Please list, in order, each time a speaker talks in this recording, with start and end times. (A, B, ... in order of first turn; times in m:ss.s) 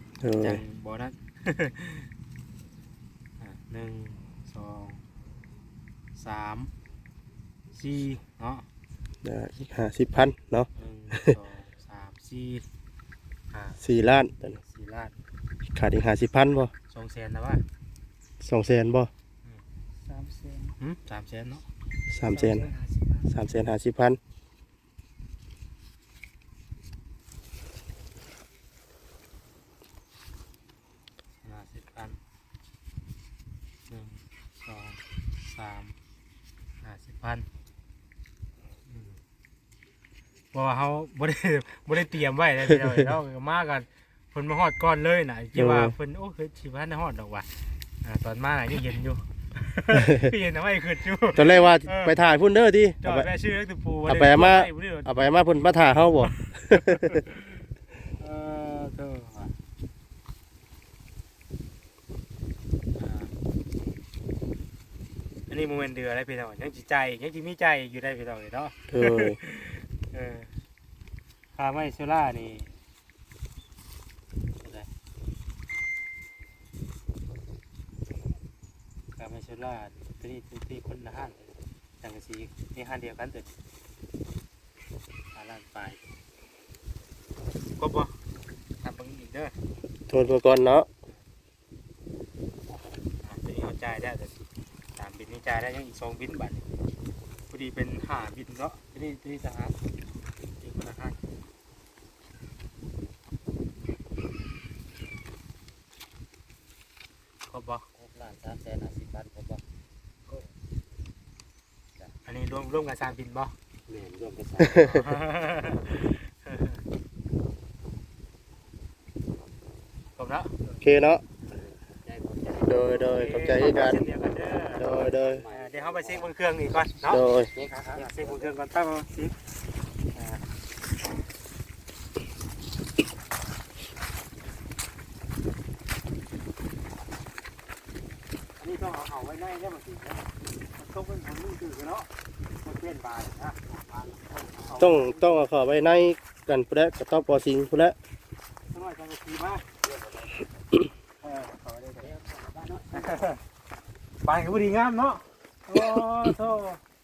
0:00.2-0:00.6 A
0:00.4-0:02.1 B
0:03.4-0:05.0 B
0:06.2-0:06.7 B
0:07.7-0:08.6 B
0:09.2-0:11.4 A
0:10.8-0:12.6 B
0:13.5-0:13.8 B
0:13.8-0:14.6 A
0:14.6-0:15.1 B
0:15.7-0:16.7 A
0:16.9-0:17.6 B
0:18.4-0:19.1 A
0:20.2-0:20.5 C
0:20.8-0:21.6 B
0:22.1-0:22.7 A
0:23.2-0:24.2 A
0:31.4-0:32.2 B
0:33.9-0:35.9 B
0:36.8-0:37.4 B
0:38.9-0:39.1 B
0:40.5-0:47.5 B
0:45.6-0:45.9 A
0:48.0-0:52.1 B
0:49.9-0:50.3 A
0:51.3-0:53.3 A
0:53.0-0:55.1 B
0:54.1-0:57.2 A
0:56.7-0:57.6 B
0:58.2-0:59.5 B
1:03.0-1:03.3 B
1:05.5-1:10.5 B
1:08.9-1:09.4 A
1:11.6-1:12.7 B
1:14.6-1:14.9 B
1:19.2-1:23.5 B
1:25.3-1:26.0 B
1:27.8-1:28.1 B
1:28.8-1:29.5 B
1:30.1-1:30.9 A
1:33.2-1:34.4 B
1:35.0-1:36.6 B
1:37.5-1:39.7 B
1:40.6-1:41.2 B
1:47.5-1:47.8 B
1:47.9-1:49.6 C
1:52.2-1:53.5 B
1:53.9-1:55.1 C
1:54.6-1:55.0 A
1:54.9-1:56.7 B
2:00.2-2:00.5 B
2:00.8-2:01.2 A
2:01.5-2:03.2 C
2:02.6-2:04.0 A
2:02.9-2:07.2 B
2:04.8-2:05.4 A
2:04.8-2:06.3 C
2:07.1-2:07.5 A
2:07.5-2:08.5 C
2:07.8-2:09.3 B
2:10.1-2:10.4 B
2:18.6-2:20.2 B
2:20.8-2:22.1 B
2:22.6-2:23.6 B
2:23.7-2:24.8 C
2:24.6-2:25.4 B
2:24.8-2:28.0 A
2:28.7-2:29.6 B
2:29.8-2:30.4 C
2:31.2-2:32.1 B
2:32.0-2:33.2 C
2:32.9-2:33.4 B
2:34.2-2:36.8 B